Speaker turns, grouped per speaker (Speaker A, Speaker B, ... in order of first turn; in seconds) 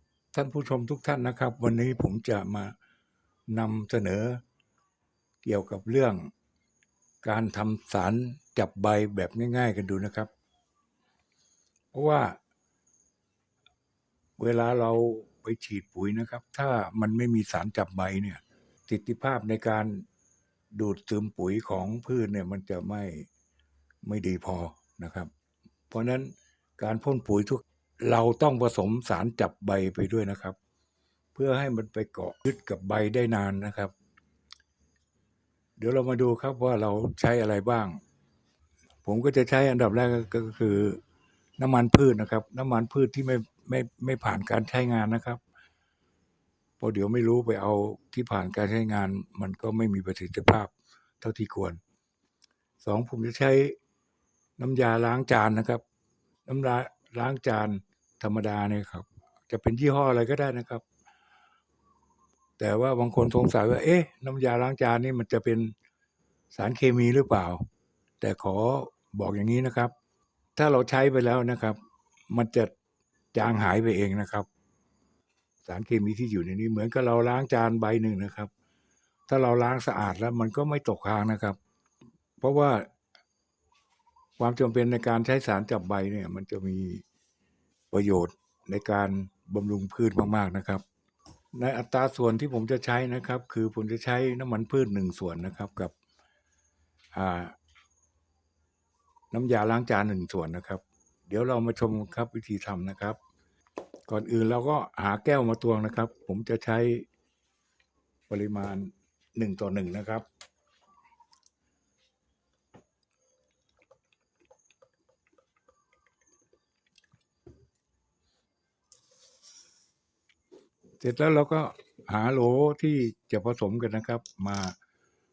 Speaker A: 0.3-2.7, 3.5-4.4, 5.4-6.3, 7.2-10.3, 11.9-12.4, 14.4-20.0, 20.7-23.3, 24.0-25.3, 25.9-30.6, 31.3-33.9, 35.8-38.0, 39.0-41.0, 41.6-45.4, 46.8-51.8, 52.8-53.8, 54.6-55.8, 56.5-60.8, 62.6-65.7, 66.5-67.6, 68.2-69.9, 70.5-71.8, 72.3-72.7, 73.3-74.5, 75.7-78.5, 79.3-81.6, 82.4-82.9, 84.4-87.0, 87.9-90.8, 91.5-95.9, 97.1-97.5, 99.3-103.2, 104.1-107.0, 108.3-110.2, 121.0-124.8